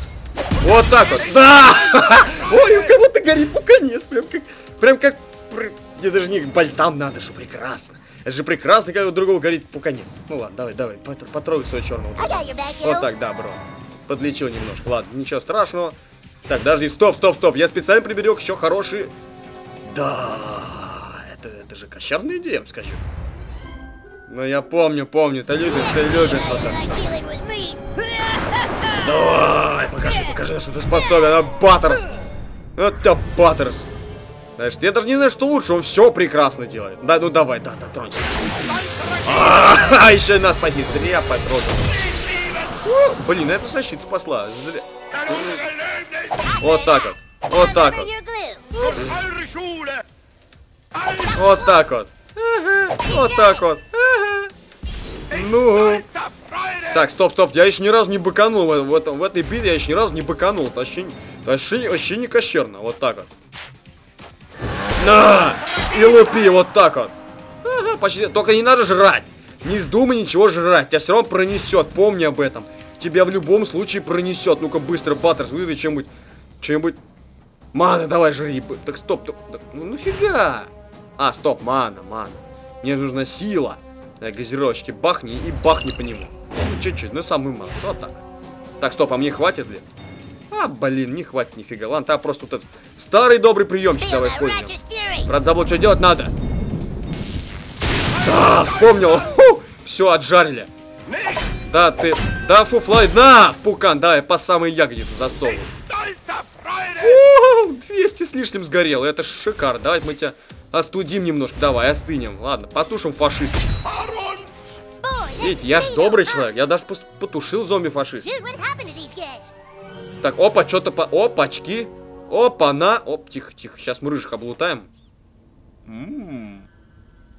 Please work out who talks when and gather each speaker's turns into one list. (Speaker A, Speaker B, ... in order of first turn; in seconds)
Speaker A: 0.6-19.1, 19.8-23.0, 24.3-27.1, 29.0-32.1, 32.8-33.9, 34.6-42.2, 42.8-45.6, 46.6-48.1, 48.7-49.4, 51.3-54.5, 55.3-56.1, 56.8-63.3, 65.0-77.0, 77.7-88.2, 88.8-89.8, 90.5-96.3, 98.2-100.7, 101.7-105.7, 106.9-113.7, 115.4-118.3, 120.2-124.9, 125.9-126.7
Speaker B: 12.2-13.1, 25.6-27.9, 46.3-48.7, 51.0-51.8, 53.0-53.7, 94.0-95.3, 115.0-116.5, 118.2-119.5